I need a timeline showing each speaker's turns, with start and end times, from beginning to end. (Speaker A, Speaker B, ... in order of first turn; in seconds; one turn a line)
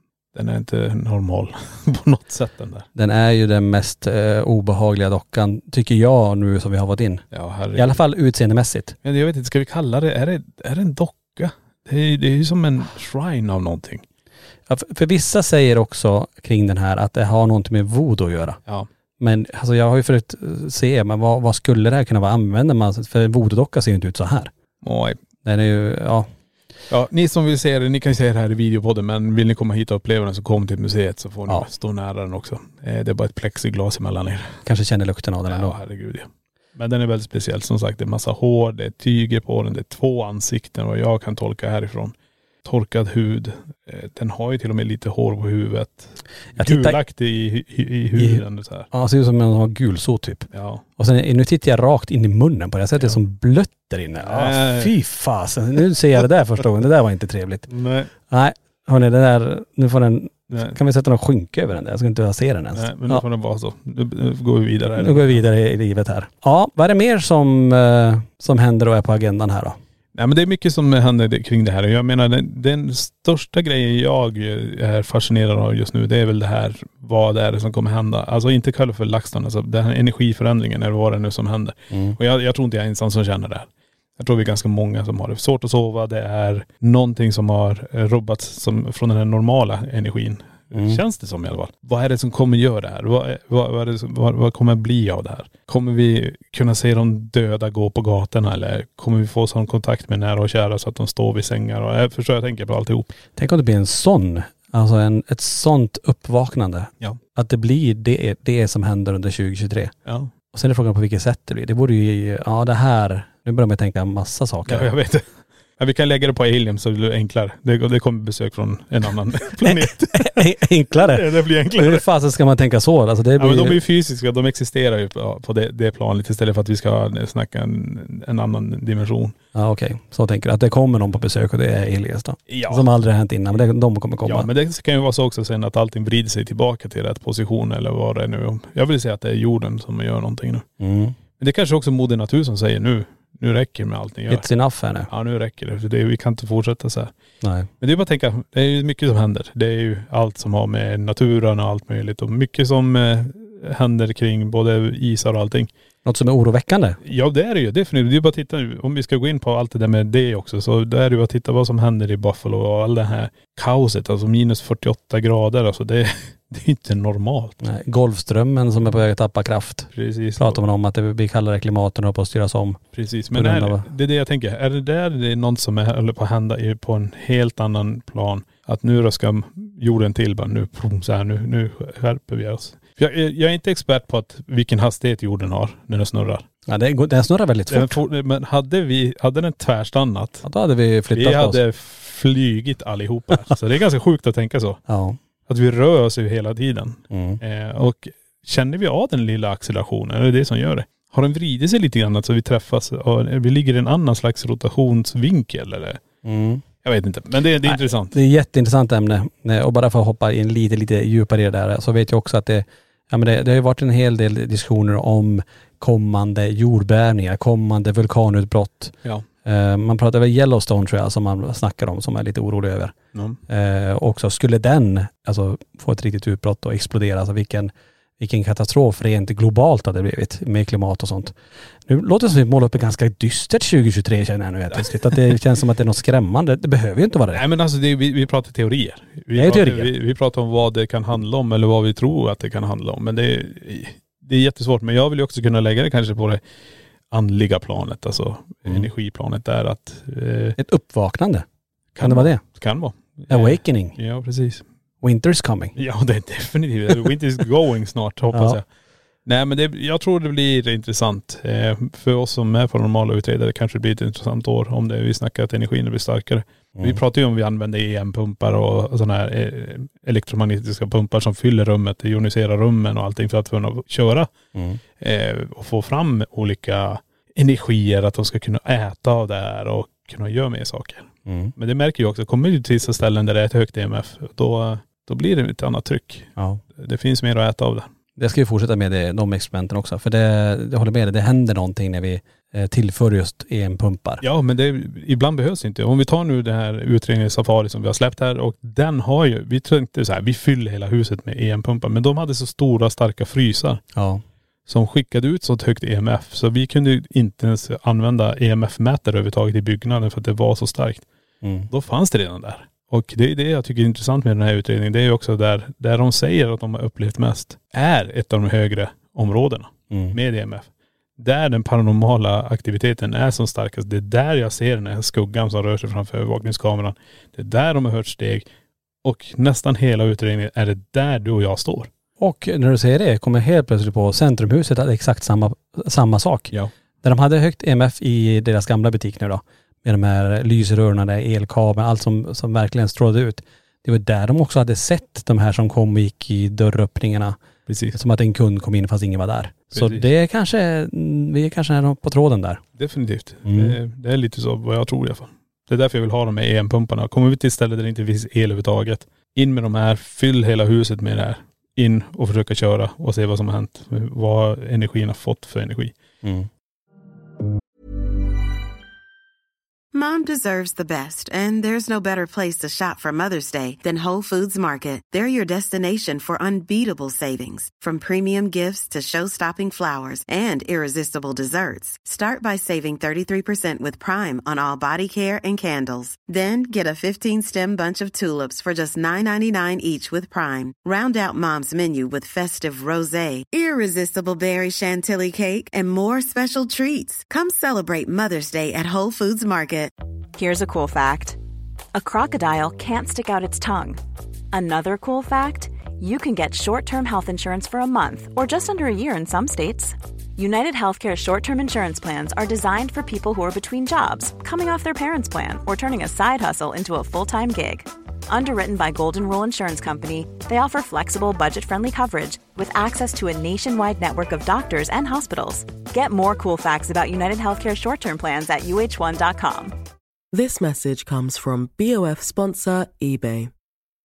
Speaker A: 0.3-2.9
Speaker B: 3.0-7.2
Speaker A: 7.3-8.0
Speaker B: 7.8-9.0
Speaker A: 9.0-14.1
Speaker B: 14.7-18.6
Speaker B: 19.2-24.5
Speaker A: 24.8-25.2
Speaker B: 25.4-26.3
Speaker A: 26.9-34.6
Speaker B: 34.6-35.8
Speaker A: 35.5-48.9
Speaker B: 46.6-47.0
Speaker B: 48.2-57.7
Speaker A: 50.5-50.8
Speaker A: 54.2-54.9
Speaker A: 57.7-58.1
Speaker B: 58.3-63.2
Speaker A: 62.8-65.4
Speaker B: 65.0-69.8
Speaker A: 70.2-103.1
Speaker B: 81.9-82.2
Speaker B: 90.8-91.0
Speaker B: 103.4-109.9
Speaker B: 110.5-114.9
Speaker A: 114.7-115.2
Speaker A: 115.8-122.0
Speaker B: 119.6-123.8
Speaker A: 123.4-129.3
Speaker B: 129.5-134.5
Speaker A: 132.5-132.9
Speaker A: 134.2-140.7
Speaker B: 140.8-141.2
Speaker A: 141.4-144.4
Speaker B: 144.3-145.1
Speaker A: 145.1-147.1
Speaker B: 147.4-147.7
Speaker A: 147.8-155.7
Speaker B: 156.1-157.0
Speaker A: 157.0-167.6
Speaker B: 167.6-172.8
Speaker A: 169.9-170.6
Speaker A: 172.9-186.4
Speaker B: 173.3-173.9
Speaker B: 186.7-188.0
Speaker A: 187.7-190.4
Speaker B: 190.4-191.6
Speaker A: 191.1-194.8
Speaker B: 194.9-195.2
Speaker A: 195.5-206.0
Speaker B: 197.1-197.4
Speaker B: 206.2-206.7
Speaker A: 206.8-208.2
Speaker B: 207.7-222.9
Speaker A: 223.1-223.4
Speaker B: 223.5-231.3
Speaker B: 231.9-237.4
Speaker A: 234.8-235.2
Speaker A: 237.3-246.4
Speaker B: 239.3-239.9
Speaker A: 247.1-250.6
Speaker B: 250.6-251.4
Speaker A: 252.0-254.6
Speaker B: 252.0-252.4
Speaker B: 253.3-254.0
Speaker B: 255.0-255.8
Speaker A: 255.8-258.6
Speaker B: 258.3-258.6
Speaker A: 259.3-274.3
Speaker B: 274.6-274.8
Speaker A: 275.0-287.9
Speaker B: 281.3-281.5
Speaker B: 286.4-286.6
Speaker B: 288.2-294.2
Speaker A: 294.2-303.8
Speaker B: 303.9-304.2
Speaker A: 304.7-311.1
Speaker B: 311.4-311.7
Speaker A: 311.7-328.5
Speaker B: 319.9-320.2
Speaker A: 329.0-331.9
Speaker B: 332.2-336.5
Speaker B: 337.0-347.4
Speaker A: 347.7-348.0
Speaker B: 347.9-352.6
Speaker A: 349.7-350.1
Speaker A: 352.8-365.9
Speaker B: 353.5-353.8
Speaker B: 366.2-366.5
Speaker C: 369.9-399.9
Speaker D: 400.4-401.4
Speaker D: 401.9-404.0
Speaker D: 404.5-429.8
Speaker E: 430.3-433.5